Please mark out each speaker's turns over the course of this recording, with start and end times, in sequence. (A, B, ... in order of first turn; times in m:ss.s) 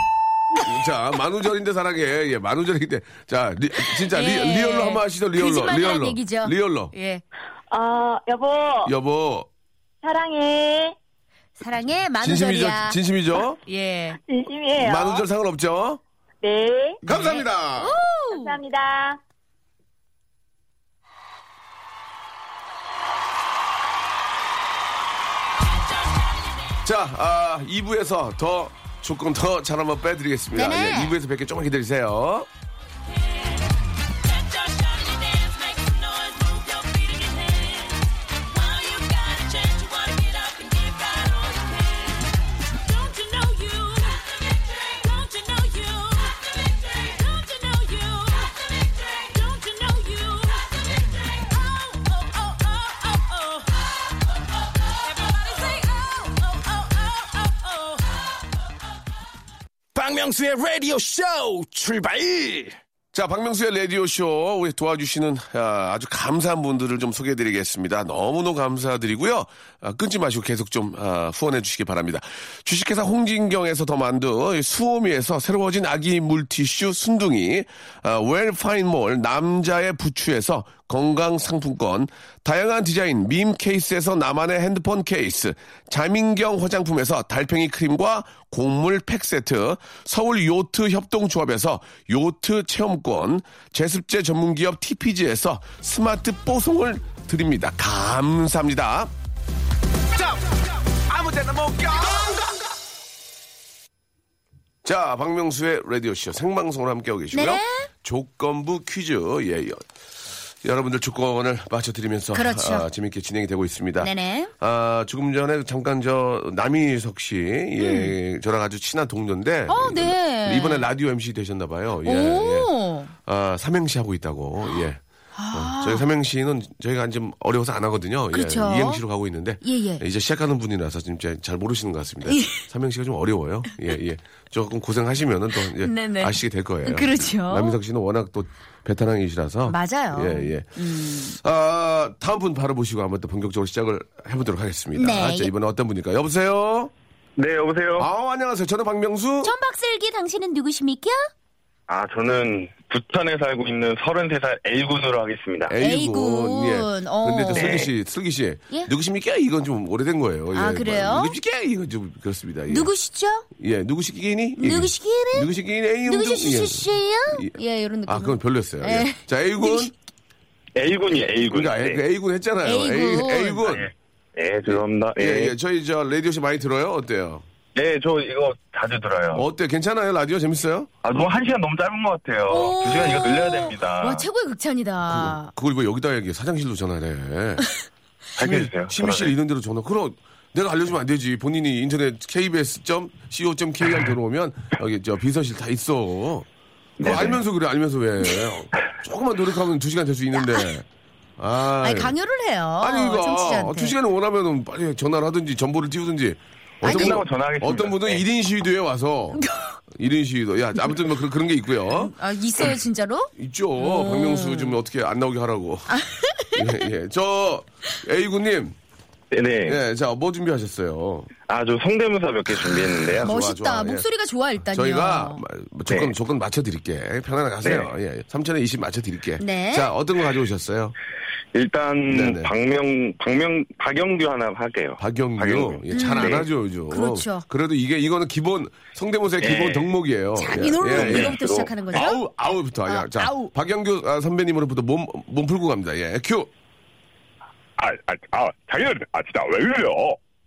0:00.6-0:06.9 A
0:03.9-0:07.2 B
0:07.7-0:08.9 C
0:08.9-0:09.5 A
0:10.0-0:11.0 C
0:11.6-0:13.0 B
0:12.2-0:13.6 A
0:13.6-0:14.2 B
0:14.3-0:15.3 C
0:14.8-0:16.0 A
0:16.4-0:17.0 C
0:17.0-0:18.0 A
0:17.1-0:18.6 B
0:18.3-0:19.2 C
0:26.8-0:32.5 A
0:30.5-0:31.2 B
0:59.9-1:02.8 D
1:03.1-1:39.1 A
1:41.1-1:42.3 A
1:44.8-1:49.8 A
1:47.3-1:47.9 B
1:50.6-2:02.7 A
1:52.3-1:52.9 B
1:54.0-1:54.5 B
1:57.8-1:58.2 B
1:59.7-2:00.9 B
2:02.0-2:03.1 B
2:03.2-2:26.9 A
2:05.4-2:06.1 B
2:08.3-2:09.0 B
2:09.6-2:10.0 B
2:12.3-2:12.6 B
2:15.8-2:17.8 B
2:19.7-2:21.4 B
2:25.0-2:25.5 B
2:27.4-2:28.1 E
2:28.0-2:29.5 A
2:29.4-2:31.3 B
2:31.9-2:35.8 E
2:35.7-2:42.9 A
2:35.8-2:37.8 B
2:37.5-2:37.9 E
2:40.5-2:41.4 B
2:42.7-2:43.5 B
2:43.6-2:49.9 A
2:44.6-2:45.5 B
2:46.0-2:49.9 B
2:50.8-2:52.0 E
2:51.5-2:53.9 A
2:52.6-2:53.7 B
2:53.7-2:55.6 E
2:54.7-2:57.4 A
2:57.8-2:59.5 E
2:59.3-3:00.9 A
3:01.0-3:04.3 E
3:02.5-3:05.5 B
3:05.1-3:07.7 A
3:08.4-3:09.3 E
3:08.4-3:16.5 A
3:17.0-3:17.4 E
3:17.0-3:20.8 A
3:20.3-3:20.7 B
3:21.4-3:22.2 A
3:21.8-3:24.0 B
3:22.8-3:32.1 A
3:26.8-3:27.2 B
3:26.8-3:28.2 E
3:29.4-3:29.7 B
3:31.9-3:34.8 B
3:33.4-3:36.0 A
3:35.9-3:36.8 B
3:36.5-3:38.8 A
3:39.3-3:39.8 E
3:39.7-3:41.3 A
3:41.5-3:43.3 E
3:42.5-3:44.1 A
3:43.2-3:45.4 B
3:44.7-3:51.0 A
3:45.9-3:46.2 E
3:47.6-3:47.9 E
3:49.4-3:49.9 B
3:51.5-3:56.5 E
3:52.1-3:52.5 A
3:55.0-4:06.5 A
3:55.9-3:57.4 B
3:59.4-3:59.9 E
4:00.4-4:02.2 B
4:00.8-4:02.1 E
4:02.8-4:03.5 B
4:07.8-4:10.2 E